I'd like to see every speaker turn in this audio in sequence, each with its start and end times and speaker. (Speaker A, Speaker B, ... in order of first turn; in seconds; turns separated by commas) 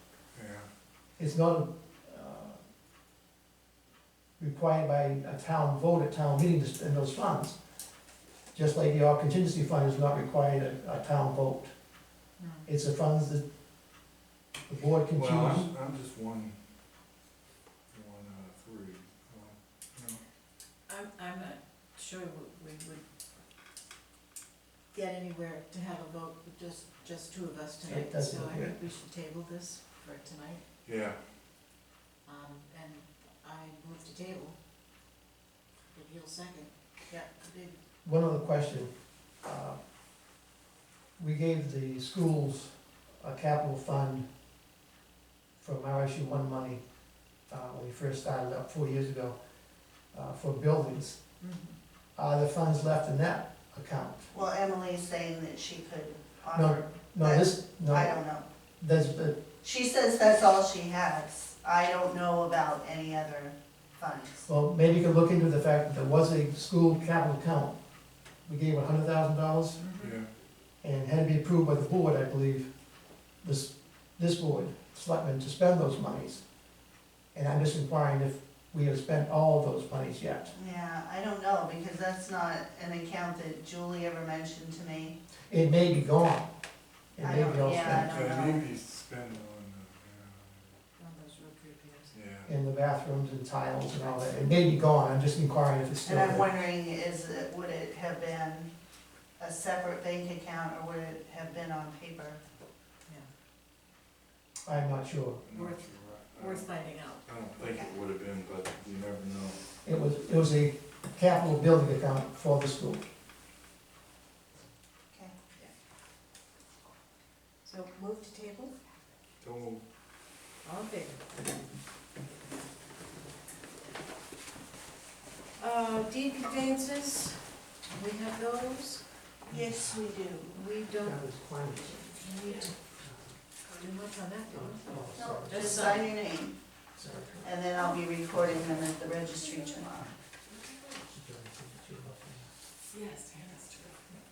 Speaker A: 0.3-0.7, Speaker B: 1.2-2.6, Speaker B: 4.4-7.6, Speaker B: 8.5-11.7, Speaker C: 12.4-12.7, Speaker B: 12.7-13.4, Speaker B: 14.7-15.7, Speaker A: 15.1-16.6, Speaker A: 17.9-20.2, Speaker C: 20.9-23.1, Speaker C: 24.9-30.6, Speaker B: 27.8-28.8, Speaker A: 30.8-31.2, Speaker C: 32.2-34.5, Speaker C: 35.9-37.8, Speaker B: 38.0-39.8, Speaker B: 41.2-44.3, Speaker B: 45.6-46.8, Speaker B: 47.5-49.4, Speaker B: 50.1-51.2, Speaker C: 51.4-51.8, Speaker B: 52.2-54.3, Speaker D: 54.3-58.5, Speaker B: 56.5-58.2, Speaker B: 58.8-59.4, Speaker D: 59.6-64.5, Speaker B: 64.5-67.8, Speaker B: 68.4-69.8, Speaker C: 69.8-70.1, Speaker A: 70.0-70.3, Speaker B: 70.8-72.8, Speaker B: 73.4-76.5, Speaker B: 77.3-80.5, Speaker D: 80.5-85.2, Speaker B: 85.5-86.5, Speaker B: 87.1-88.1, Speaker D: 87.2-88.7, Speaker A: 87.9-90.8, Speaker C: 91.0-92.1, Speaker A: 92.1-92.5, Speaker B: 92.5-96.5, Speaker D: 96.0-98.7, Speaker D: 99.4-102.4, Speaker B: 104.6-105.4, Speaker A: 105.4-109.6, Speaker C: 105.5-107.3, Speaker D: 107.6-107.9, Speaker B: 109.8-113.0, Speaker C: 117.6-118.7, Speaker A: 119.4-119.8, Speaker C: 120.6-121.2, Speaker C: 125.6-129.0, Speaker D: 129.5-130.6, Speaker B: 129.5-130.0, Speaker C: 130.5-131.2, Speaker B: 131.0-132.4, Speaker C: 132.2-132.8, Speaker B: 132.9-133.3, Speaker C: 133.8-136.1, Speaker B: 134.5-136.1, Speaker D: 135.1-136.6, Speaker B: 136.9-137.5, Speaker D: 137.4-140.1, Speaker B: 141.1-142.5, Speaker C: 143.0-143.8